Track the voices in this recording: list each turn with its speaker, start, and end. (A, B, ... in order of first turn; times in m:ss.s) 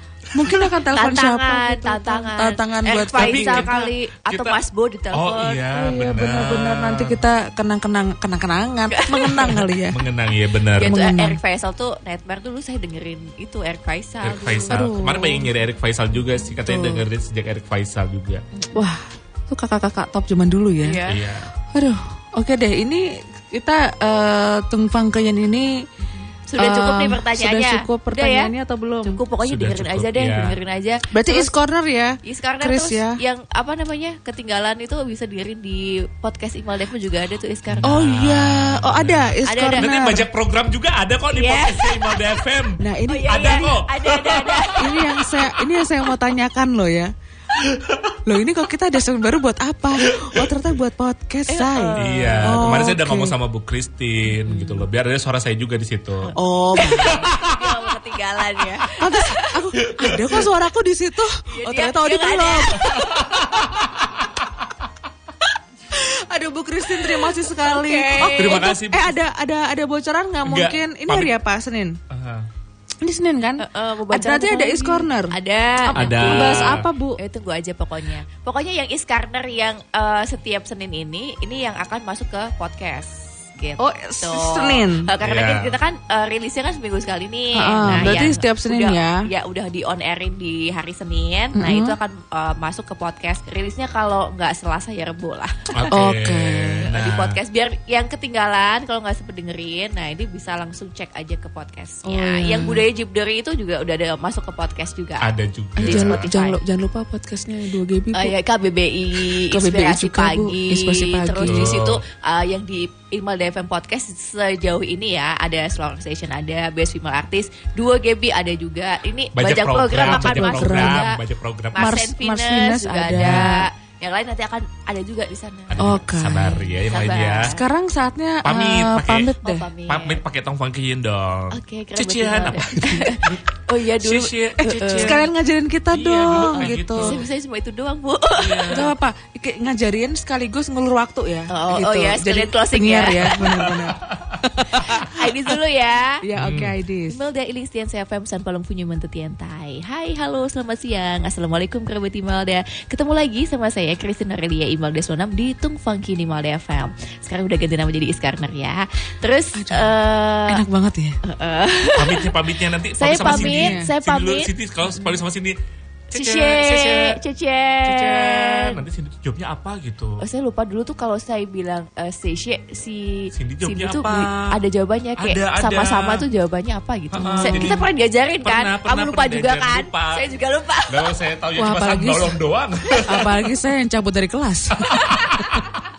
0:00.4-0:03.9 A
0:01.0-0:05.6 B
0:03.0-0:04.6 C
0:05.1-0:07.2 C
0:05.7-0:10.0 A
0:08.9-0:09.6 B
0:09.9-0:10.9 C
0:10.8-0:14.8 B
0:10.8-0:11.4 A
0:14.2-0:18.4 C
0:14.7-0:15.5 A
0:16.7-0:17.0 A
0:18.7-0:21.0 A
0:20.8-0:21.2 B
0:21.1-0:21.5 C
0:21.7-0:25.9 A
0:26.5-0:28.5 B
0:26.6-0:29.2 A
0:29.1-0:31.5 B
0:29.4-0:30.6 C
0:31.1-0:33.2 A
0:32.2-0:38.0 B
0:37.7-0:44.7 C
0:37.8-0:40.3 A
0:39.5-0:39.9 B
0:41.3-0:42.3 B
0:42.8-0:43.7 A
0:43.1-0:45.3 B
0:44.8-0:47.1 A
0:47.5-0:48.2 C
0:48.2-0:53.4 A
0:50.2-0:50.5 C
0:51.5-0:52.9 B
0:52.0-0:57.8 C
0:54.4-0:54.8 B
0:56.2-0:59.6 B
0:56.4-0:57.2 A
0:59.0-1:03.0 A
1:00.0-1:00.4 C
1:01.5-1:03.3 B
1:03.0-1:04.7 C
1:05.9-1:12.0 A
1:07.1-1:08.7 B
1:08.4-1:09.2 C
1:10.4-1:11.4 C
1:12.1-1:12.5 C
1:13.0-1:15.3 A
1:13.6-1:35.9 B
1:15.8-1:17.2 A
1:16.0-1:16.9 C
1:23.8-1:25.1 A
1:25.2-1:25.8 C
1:27.6-1:29.2 A
1:28.0-1:28.3 C
1:31.6-1:32.0 A
1:35.8-1:37.4 C
1:35.9-1:36.9 A
1:36.9-1:46.6 B
1:42.0-1:42.8 A
1:45.2-1:46.3 C
1:45.8-1:48.4 A
1:48.1-2:01.2 B
1:49.4-1:51.8 A
1:51.4-1:52.0 C
1:59.4-2:01.9 C
2:00.0-2:01.1 A
2:01.7-2:05.8 B
2:01.8-2:03.7 A
2:03.1-2:03.5 C
2:05.7-2:07.5 C
2:05.8-2:06.6 A
2:06.8-2:07.6 B
2:07.5-2:09.6 A
2:08.4-2:09.3 C
2:09.4-2:10.2 B
2:09.9-2:13.5 C
2:11.5-2:15.2 B
2:14.0-2:15.3 C
2:15.0-2:17.1 A
2:15.9-2:17.2 C
2:16.4-2:18.9 B
2:18.4-2:18.9 C
2:18.7-2:25.4 A
2:21.5-2:23.6 B
2:23.3-2:24.4 C
2:24.8-2:26.2 B
2:26.2-2:27.2 A
2:26.4-2:26.7 C
2:27.1-2:40.6 B
2:39.6-2:41.2 A
2:41.2-2:42.3 B
2:42.0-2:45.6 C
2:43.0-2:45.2 B
2:43.2-2:43.9 A
2:46.1-2:47.2 C
2:46.1-2:48.8 B
2:47.8-2:50.2 C
2:50.2-3:01.0 B
2:53.3-2:54.6 C
2:55.2-2:56.3 C
2:57.1-2:57.9 C
2:57.2-2:57.7 A
2:58.4-3:00.3 C
3:00.9-3:03.3 C
3:01.6-3:02.3 A
3:03.1-3:05.6 A
3:04.9-3:05.8 C